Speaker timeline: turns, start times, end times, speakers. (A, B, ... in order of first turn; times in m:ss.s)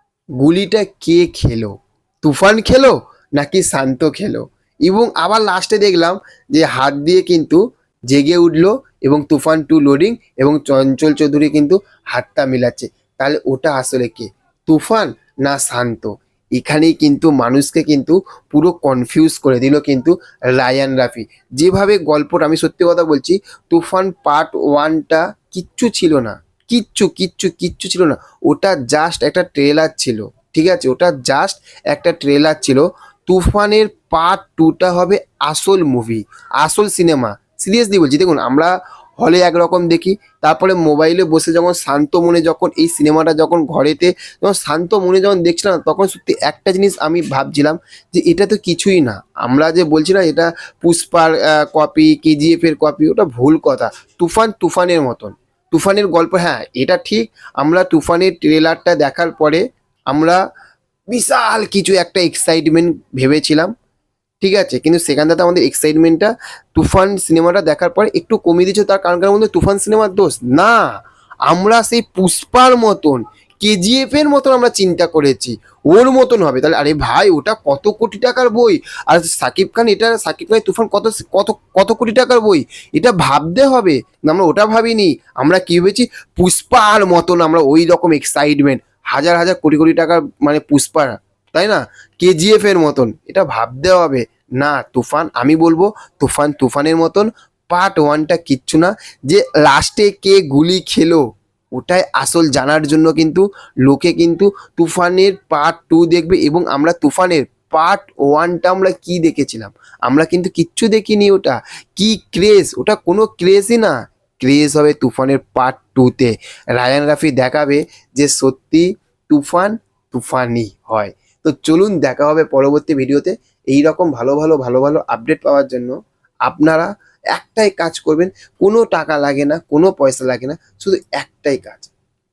0:00.4-1:00.4 A
1:01.1-1:03.7 A
1:04.4-1:10.8 A
1:11.4-1:41.2 A
1:41.7-2:05.9 A
2:06.4-2:11.9 A